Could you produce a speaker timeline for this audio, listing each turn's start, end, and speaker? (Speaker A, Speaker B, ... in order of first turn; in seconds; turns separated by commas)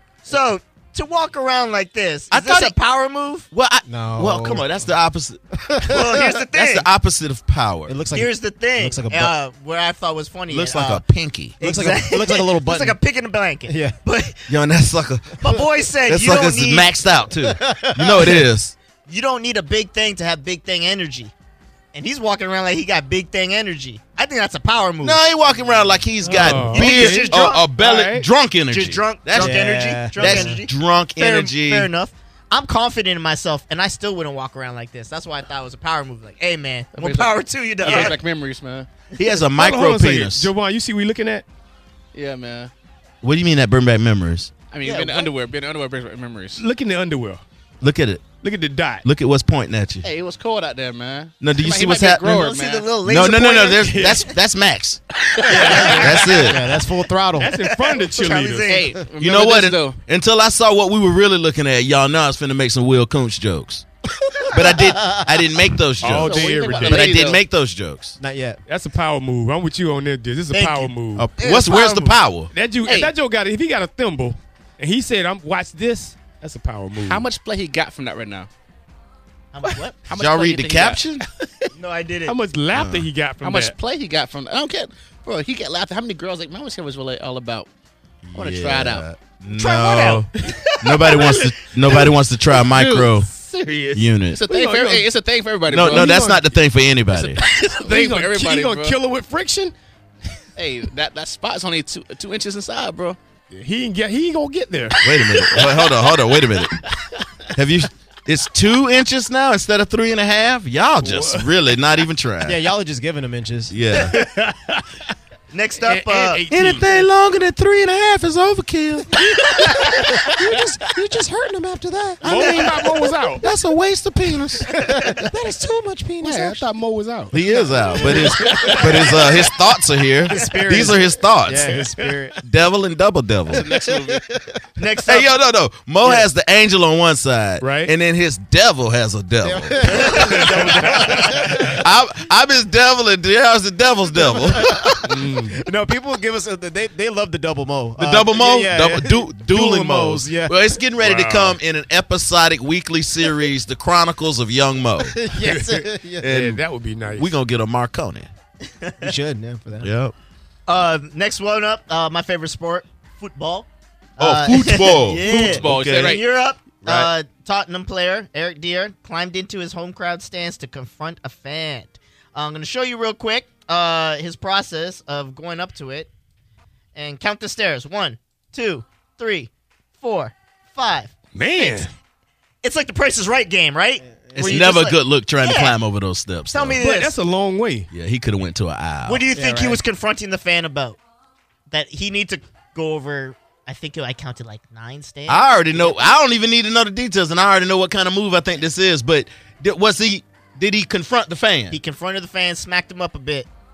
Speaker A: 0.2-3.5, Speaker B: 2.3-2.8, Speaker B: 3.5-8.0, Speaker C: 3.9-4.9, Speaker C: 5.6-6.3, Speaker A: 5.8-6.9, Speaker C: 7.9-9.3, Speaker A: 8.1-11.0, Speaker B: 10.5-11.6, Speaker A: 11.6-14.5, Speaker C: 11.6-13.0, Speaker C: 13.7-13.9, Speaker B: 14.5-15.4, Speaker A: 15.4-16.9, Speaker B: 16.0-18.8, Speaker C: 17.4-18.4, Speaker A: 19.1-21.3, Speaker A: 21.9-25.2, Speaker B: 25.0-31.9, Speaker D: 26.2-28.3, Speaker A: 26.7-27.7, Speaker A: 28.7-38.2, Speaker C: 29.3-30.6, Speaker E: 37.0-38.9, Speaker D: 37.8-38.1, Speaker B: 39.2-40.5, Speaker D: 39.5-41.5, Speaker E: 42.1-42.7, Speaker B: 43.2-44.5, Speaker E: 44.7-46.6, Speaker A: 44.8-45.3, Speaker D: 46.6-47.4, Speaker B: 47.8-48.2, Speaker D: 48.4-49.1, Speaker B: 49.0-50.1, Speaker E: 50.0-52.9, Speaker B: 51.4-52.4, Speaker A: 52.2-54.3, Speaker B: 53.0-55.0, Speaker E: 55.4-56.0, Speaker C: 55.5-57.6, Speaker D: 55.5-56.4, Speaker B: 55.6-56.7, Speaker D: 57.4-58.8, Speaker A: 57.7-59.0, Speaker E: 58.7-60.0, Speaker B: 59.2-63.9, Speaker C: 64.3-65.7, Speaker B: 64.5-68.2, Speaker D: 66.0-67.2, Speaker E: 66.1-67.4, Speaker C: 68.2-68.6, Speaker D: 68.7-71.3, Speaker A: 70.5-72.2, Speaker B: 71.2-72.5, Speaker D: 72.5-77.3, Speaker E: 72.9-73.1, Speaker E: 77.1-78.5, Speaker A: 79.5-80.0, Speaker E: 80.0-81.5, Speaker B: 80.1-81.3, Speaker A: 81.8-82.3, Speaker D: 82.3-83.7, Speaker B: 82.7-83.1, Speaker E: 83.4-87.7, Speaker B: 88.2-93.3, Speaker E: 88.3-89.1, Speaker A: 89.5-91.5, Speaker E: 91.9-96.1, Speaker B: 93.9-94.4, Speaker D: 94.5-95.1, Speaker B: 95.7-97.4, Speaker D: 95.8-96.5, Speaker E: 97.1-99.0, Speaker D: 97.8-99.7, Speaker E: 100.6-103.2, Speaker D: 103.5-105.7, Speaker B: 105.0-106.8, Speaker B: 107.5-112.6, Speaker D: 111.0-111.5, Speaker C: 112.4-113.7, Speaker B: 113.7-114.2, Speaker D: 113.9-115.1, Speaker A: 115.5-116.5, Speaker D: 115.8-117.0, Speaker B: 116.5-119.2, Speaker D: 119.2-120.6, Speaker C: 119.6-122.6, Speaker B: 122.2-122.9, Speaker D: 122.2-123.5, Speaker B: 123.4-124.7, Speaker C: 124.7-126.7, Speaker A: 124.8-125.2, Speaker D: 126.2-129.5, Speaker B: 127.3-131.8, Speaker C: 127.9-129.4, Speaker C: 130.2-132.4, Speaker D: 131.7-132.2, Speaker B: 132.4-133.7, Speaker E: 133.5-134.2, Speaker C: 133.7-134.6, Speaker A: 134.8-135.3, Speaker B: 135.1-145.2, Speaker D: 137.6-137.9, Speaker C: 139.4-141.8, Speaker A: 139.8-140.9, Speaker D: 140.1-141.8, Speaker C: 144.5-150.6, Speaker D: 145.1-145.6, Speaker B: 148.0-155.5, Speaker D: 151.0-151.6, Speaker C: 155.0-156.3, Speaker D: 155.4-157.3, Speaker B: 156.2-158.3, Speaker A: 158.7-159.1, Speaker C: 159.0-159.9, Speaker B: 159.8-160.1, Speaker A: 160.7-176.1, Speaker B: 164.2-166.2, Speaker E: 165.2-166.2, Speaker B: 166.8-167.1, Speaker A: 176.9-181.9, Speaker D: 181.3-181.9, Speaker A: 182.6-185.8, Speaker C: 184.3-184.6, Speaker B: 184.4-186.8, Speaker A: 186.5-187.2, Speaker D: 186.8-187.9, Speaker B: 187.9-189.2, Speaker A: 189.1-191.0, Speaker C: 189.3-189.8, Speaker A: 191.7-196.1, Speaker B: 195.3-201.8, Speaker A: 201.7-203.5